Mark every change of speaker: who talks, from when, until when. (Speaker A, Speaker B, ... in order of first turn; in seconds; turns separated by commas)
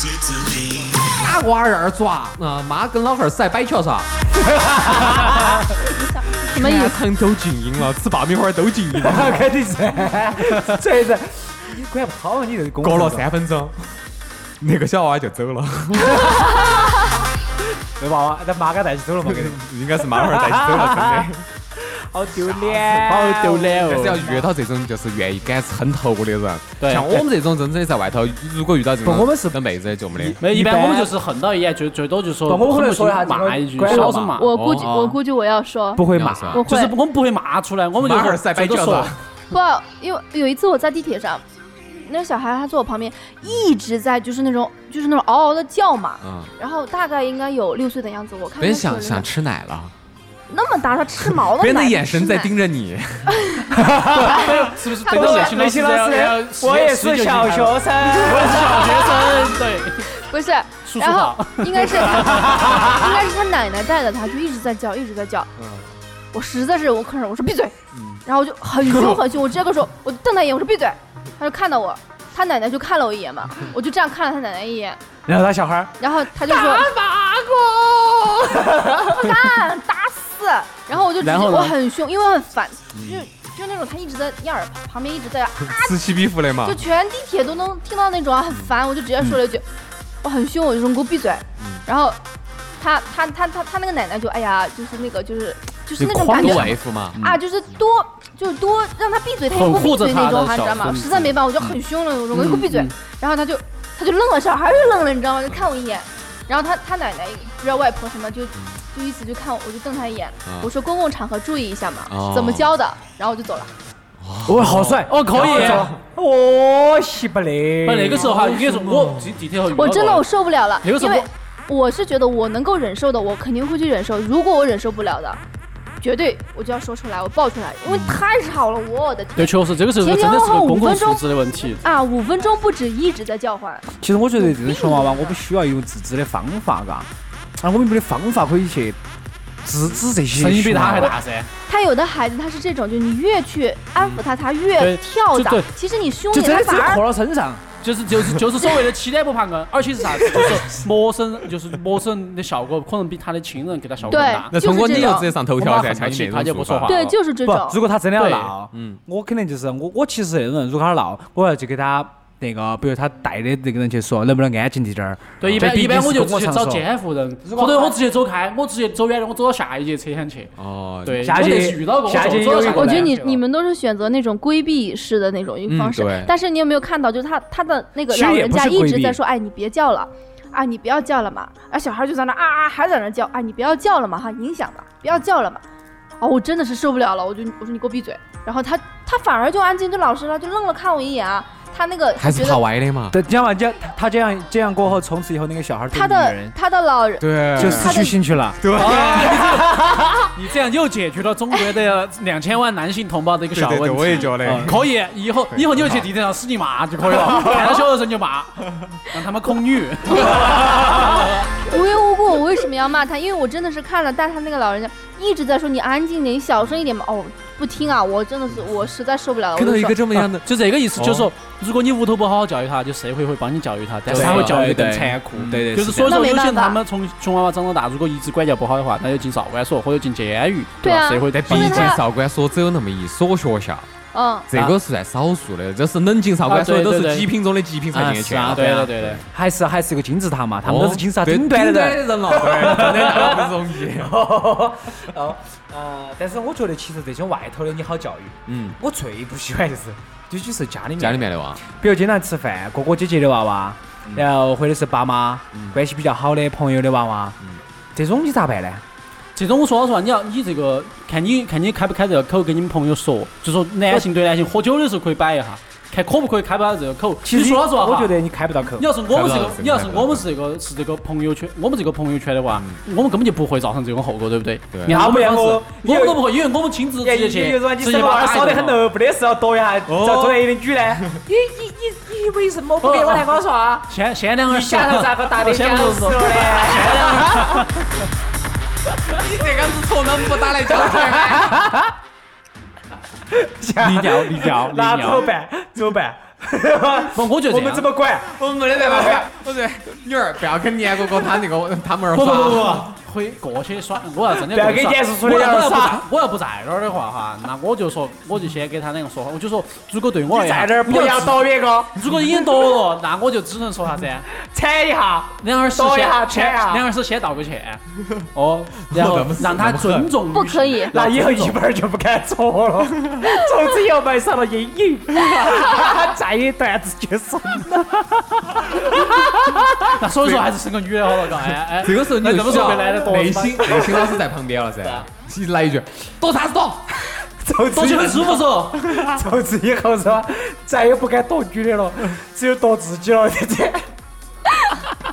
Speaker A: 1.0-4.1, Speaker B: 4.4-5.7, Speaker A: 4.8-5.5, Speaker C: 5.9-7.0, Speaker A: 6.5-9.5, Speaker B: 8.9-13.3, Speaker A: 12.8-14.0, Speaker A: 14.6-16.7, Speaker B: 16.2-16.7, Speaker B: 18.0-24.5, Speaker A: 19.2-21.5, Speaker A: 22.5-23.1, Speaker D: 23.1-24.3, Speaker A: 23.9-30.4, Speaker D: 26.8-27.2, Speaker B: 29.0-29.6, Speaker B: 30.1-31.1, Speaker D: 30.4-34.5, Speaker B: 32.5-34.3, Speaker C: 33.9-37.0, Speaker A: 34.5-35.1, Speaker B: 36.0-36.6, Speaker A: 36.1-36.6, Speaker D: 36.6-39.1, Speaker A: 38.0-39.2, Speaker C: 39.5-41.4, Speaker C: 42.0-49.3, Speaker A: 46.2-46.5, Speaker A: 48.6-49.9, Speaker C: 50.5-52.5, Speaker A: 51.2-53.5, Speaker C: 53.3-55.5, Speaker B: 53.7-59.3, Speaker D: 54.1-60.1, Speaker C: 60.1-65.5, Speaker D: 60.9-62.9, Speaker B: 62.3-62.9, Speaker A: 65.6-65.9, Speaker C: 66.3-75.0, Speaker B: 75.2-76.0, Speaker C: 76.0-76.9, Speaker A: 76.7-78.6, Speaker B: 78.7-79.1, Speaker C: 78.9-89.6, Speaker D: 81.2-81.8, Speaker A: 82.9-83.2, Speaker A: 85.6-86.8, Speaker C: 90.2-92.2, Speaker C: 92.8-113.7, Speaker D: 96.2-96.8, Speaker A: 96.4-97.2, Speaker D: 99.5-101.2, Speaker A: 101.2-101.8, Speaker D: 102.3-102.9, Speaker A: 112.1-112.7, Speaker A: 114.2-116.0, Speaker B: 114.5-119.3, Speaker D: 114.8-115.9, Speaker D: 117.8-120.3, Speaker C: 119.7-125.4, Speaker D: 120.8-121.3, Speaker C: 126.0-131.2, Speaker D: 129.4-131.8, Speaker C: 131.8-133.9, Speaker B: 134.0-137.1, Speaker C: 134.4-135.4, Speaker B: 137.6-139.0, Speaker B: 139.6-141.2, Speaker D: 140.3-141.5, Speaker C: 141.7-147.0, Speaker D: 144.8-145.7, Speaker B: 146.3-147.6, Speaker D: 147.8-157.2, Speaker B: 150.3-150.6, Speaker C: 154.1-155.3, Speaker A: 154.1-157.0, Speaker C: 156.8-157.8, Speaker B: 157.4-166.8, Speaker D: 158.2-158.5, Speaker A: 158.7-159.0, Speaker D: 165.4-170.5, Speaker A: 165.4-165.7, Speaker B: 167.4-168.0, Speaker A: 170.6-171.5, Speaker D: 171.0-173.4, Speaker B: 171.2-173.1, Speaker C: 172.6-185.6, Speaker A: 175.7-176.3, Speaker B: 178.1-179.2, Speaker C: 186.2-192.6, Speaker A: 192.2-193.2, Speaker B: 193.1-196.6, Speaker C: 195.9-198.2, Speaker A: 197.2-198.0, Speaker B: 197.6-200.3, Speaker A: 198.6-199.5, Speaker D: 198.7-211.4, Speaker A: 203.5-204.8, Speaker B: 204.4-204.8, Speaker A: 205.5-206.1, Speaker B: 207.2-207.8, Speaker C: 210.2-220.0, Speaker A: 219.5-221.3, Speaker D: 220.3-232.0, Speaker A: 224.1-224.8, Speaker B: 224.1-226.2, Speaker A: 225.3-225.7, Speaker C: 226.0-226.8, Speaker C: 230.8-232.0, Speaker A: 231.3-233.9, Speaker C: 234.1-234.5, Speaker A: 234.5-239.2, Speaker D: 236.5-237.3, Speaker B: 237.9-257.4, Speaker D: 238.5-239.2, Speaker A: 240.6-244.2, Speaker A: 248.5-248.8, Speaker A: 251.0-251.6, Speaker B: 257.9-258.8, Speaker D: 259.4-268.2, Speaker B: 267.2-268.9, Speaker D: 268.8-278.8, Speaker A: 269.1-270.2, Speaker A: 274.7-275.0, Speaker B: 274.9-276.2, Speaker B: 277.0-283.9, Speaker A: 279.9-280.4, Speaker D: 282.8-283.3, Speaker D: 283.9-287.7, Speaker B: 284.5-287.7, Speaker A: 289.1-291.6, Speaker B: 290.6-291.9, Speaker B: 293.3-299.3, Speaker D: 293.8-295.3, Speaker D: 297.1-297.9, Speaker A: 298.2-302.9, Speaker D: 302.1-311.4, Speaker B: 302.2-302.9, Speaker B: 304.4-306.1, Speaker B: 310.3-312.1, Speaker D: 311.9-314.3, Speaker B: 314.3-316.9, Speaker D: 315.4-317.8, Speaker D: 318.4-321.6, Speaker A: 318.9-320.1, Speaker C: 320.3-320.9, Speaker B: 320.9-330.0, Speaker A: 325.3-325.6, Speaker D: 329.9-333.9, Speaker A: 331.7-337.1, Speaker B: 333.6-334.2, Speaker B: 337.2-343.9, Speaker D: 337.7-338.8, Speaker A: 338.9-339.1